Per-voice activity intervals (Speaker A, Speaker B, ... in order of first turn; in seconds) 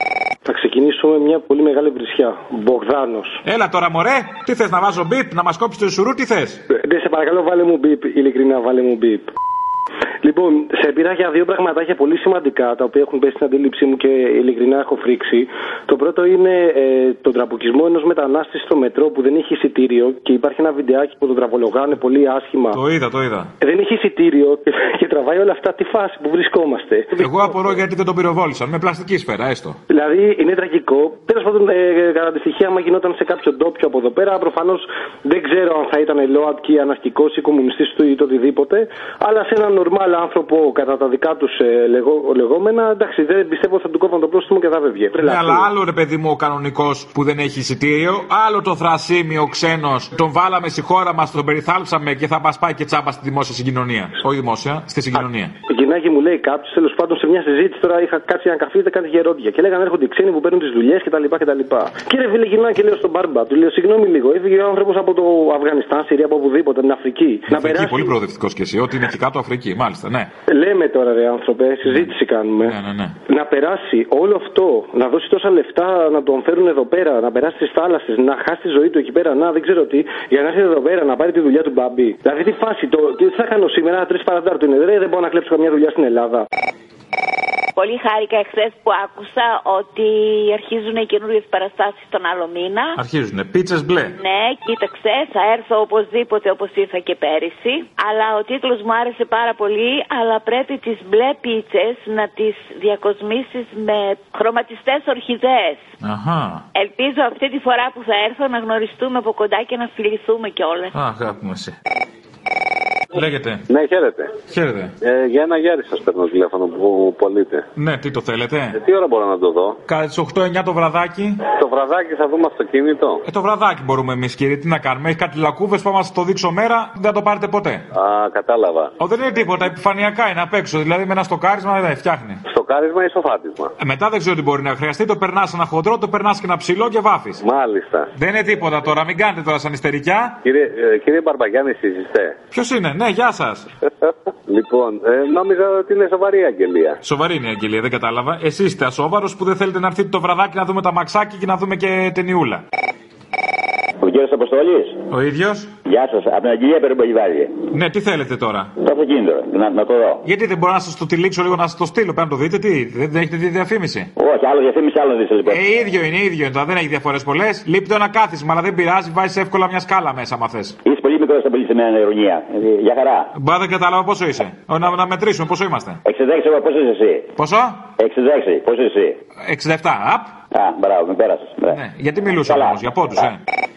Speaker A: 0.5-3.4, 6.7-9.3, 10.2-22.8, 23.6-27.6, 29.9-45.7, 55.7-68.1, 70.5-72.8, 73.3-86.5
Speaker B: 3.5-6.6, 22.7-23.5, 27.2-29.8, 45.2-55.5, 67.5-70.3, 72.7-73.2, 93.0-94.2, 106.0-106.6, 110.9-111.7, 113.1-113.7, 114.5-114.9, 117.8-118.8, 119.9-121.5, 123.2-127.8, 129.0-132.4, 133.8-137.4, 138.2-140.4, 142.5-143.7, 147.0-152.6, 155.1-155.7, 157.7-158.7, 160.2-164.1, 165.5-170.8, 173.4-176.0, 177.4-177.8, 179.4-180.4, 181.7-183.4
Speaker C: 87.8-93.0, 94.2-105.9, 106.8-110.9
Speaker D: 113.7-114.3, 115.0-117.7, 118.7-119.8, 121.5-123.2, 127.9-128.9, 132.5-133.7, 137.4-138.1, 140.4-142.4, 144.1-147.0
Speaker E: 154.0-155.0, 155.8-157.6, 158.8-160.2, 164.2-165.6, 170.8-173.3, 176.0-177.3, 178.0-179.2, 180.5-181.8, 182.5-182.8